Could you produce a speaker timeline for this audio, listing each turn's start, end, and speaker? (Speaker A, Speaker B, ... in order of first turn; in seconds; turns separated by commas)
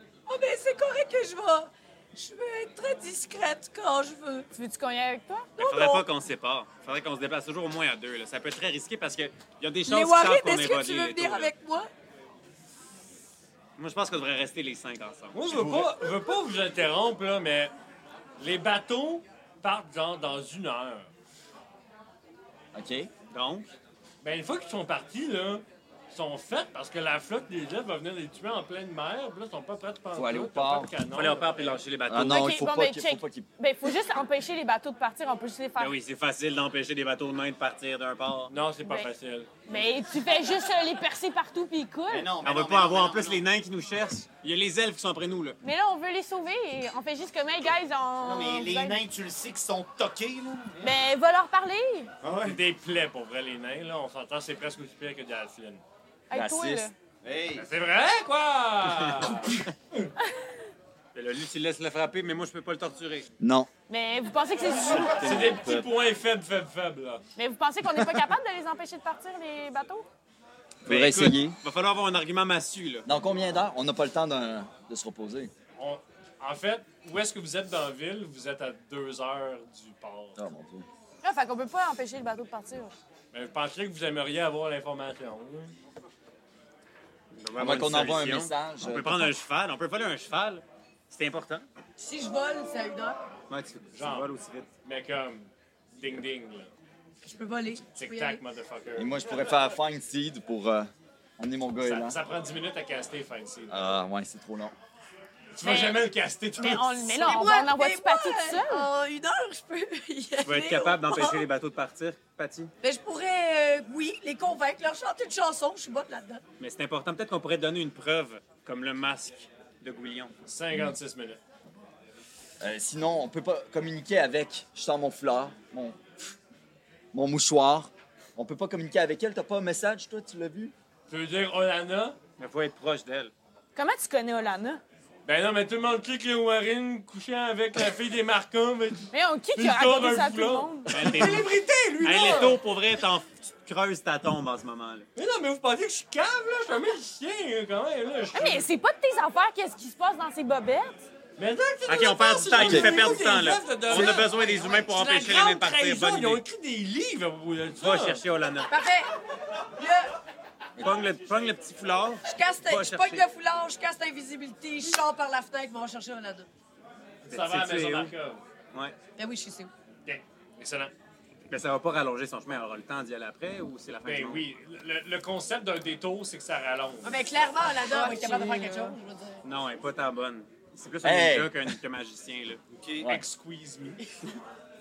Speaker A: 0.3-4.5, Speaker B: 4.5-5.5, Speaker A: 5.6-6.1, Speaker C: 5.6-11.5, Speaker A: 9.8-11.9, Speaker C: 13.8-15.6, Speaker D: 15.3-17.7, Speaker E: 15.6-15.8, Speaker D: 18.4-21.1, Speaker E: 22.7-23.1, Speaker C: 23.3-23.7, Speaker D: 24.2-31.8, Speaker E: 30.1-30.9, Speaker C: 31.1-32.5, Speaker E: 32.1-33.5, Speaker B: 32.1-35.9, Speaker C: 35.8-38.5, Speaker D: 38.5-39.5, Speaker B: 39.6-42.3, Speaker F: 42.1-43.4, Speaker C: 42.4-45.6, Speaker B: 45.6-49.0, Speaker F: 48.2-50.9, Speaker B: 50.8-52.1, Speaker F: 52.2-52.6, Speaker D: 52.4-55.8, Speaker B: 56.3-56.9, Speaker E: 56.3-56.9, Speaker F: 57.2-57.7, Speaker D: 57.5-60.1, Speaker C: 59.0-59.3, Speaker C: 61.1-63.3, Speaker E: 63.4-63.7, Speaker B: 63.9-65.2, Speaker D: 65.0-67.2, Speaker C: 65.2-65.8, Speaker B: 67.4-70.0, Speaker E: 70.8-71.6, Speaker C: 70.8-73.0, Speaker E: 73.0-75.5, Speaker D: 75.8-80.4, Speaker E: 80.3-80.8, Speaker B: 81.2-82.9, Speaker D: 83.3-85.7, Speaker C: 87.3-91.7, Speaker E: 87.5-89.3, Speaker A: 92.0-93.2, Speaker C: 93.5-94.7, Speaker D: 93.9-94.3, Speaker D: 94.8-96.7, Speaker A: 97.2-98.4, Speaker D: 97.9-99.1, Speaker E: 99.0-102.2, Speaker D: 101.8-103.9, Speaker E: 103.7-104.7, Speaker D: 105.5-107.0, Speaker B: 105.6-108.9, Speaker A: 107.0-111.5, Speaker C: 110.4-112.7, Speaker A: 112.8-116.4, Speaker C: 116.6-120.3, Speaker D: 120.5-121.4, Speaker E: 122.6-126.0, Speaker E: 127.1-130.7, Speaker D: 131.1-132.2, Speaker C: 132.4-133.3, Speaker B: 133.8-134.8, Speaker D: 135.2-142.6, Speaker B: 139.1-141.0, Speaker C: 140.9-145.1, Speaker D: 145.2-148.7, Speaker B: 148.3-151.0, Speaker D: 151.4-158.2, Speaker C: 151.9-156.4, Speaker E: 152.5-153.1, Speaker E: 153.9-154.2, Speaker C: 157.8-158.7, Speaker A: 158.7-159.1, Speaker A: 159.8-160.1, Speaker C: 160.8-163.2, Speaker A: 162.2-166.5, Speaker D: 167.2-168.4, Speaker C: 167.3-168.1, Speaker A: 169.2-169.7, Speaker D: 170.1-170.9, Speaker C: 171.5-174.4, Speaker D: 174.0-177.2, Speaker A: 177.0-179.4, Speaker B: 177.8-178.9, Speaker C: 179.4-182.6, Speaker E: 181.0-181.8, Speaker F: 182.7-183.1, Speaker D: 183.0-184.0